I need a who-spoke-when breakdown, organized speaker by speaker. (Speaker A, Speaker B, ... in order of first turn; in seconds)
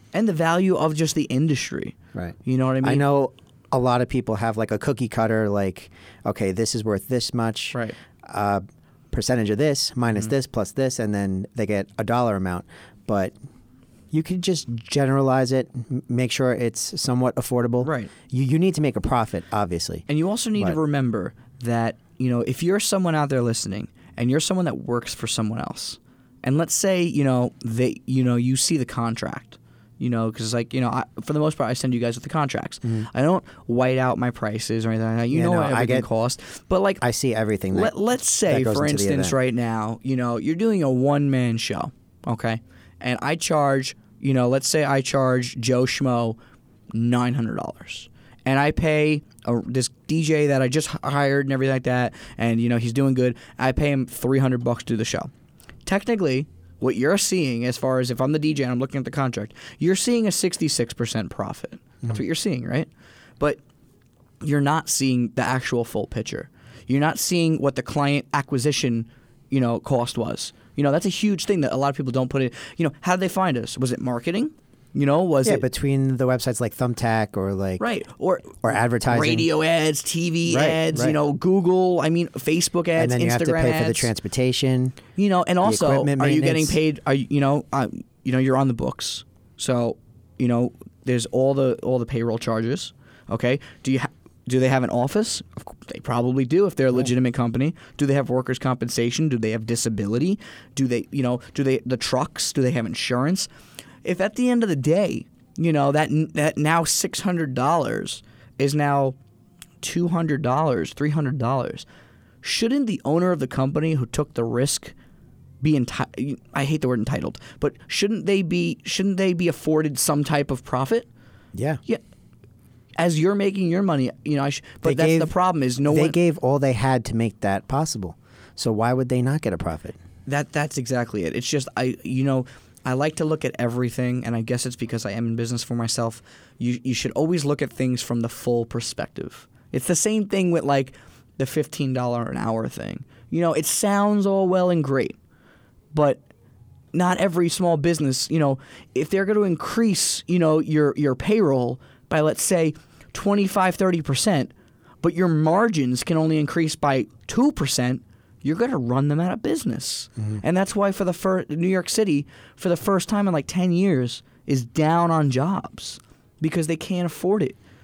Speaker A: 0.1-3.0, 17.8-18.1, 20.1-37.0, 37.7-46.4, 46.9-55.3, 55.9-63.6, 64.4-75.7, 77.8-84.1, 85.2-103.5, 104.0-109.2, 109.8-111.9, 112.4-114.9, 115.6-121.1, 123.0-126.2, 130.3-145.2, 145.9-146.2, 146.9-154.5, 155.0-167.6
Speaker B: 2.1-13.3, 14.1-20.8, 35.3-36.1, 37.0-37.9, 38.5-39.4, 75.4-77.8, 78.6-79.5, 80.5-81.2, 83.0-85.0, 85.6-86.8, 121.5-121.8, 124.8-125.3, 125.9-130.0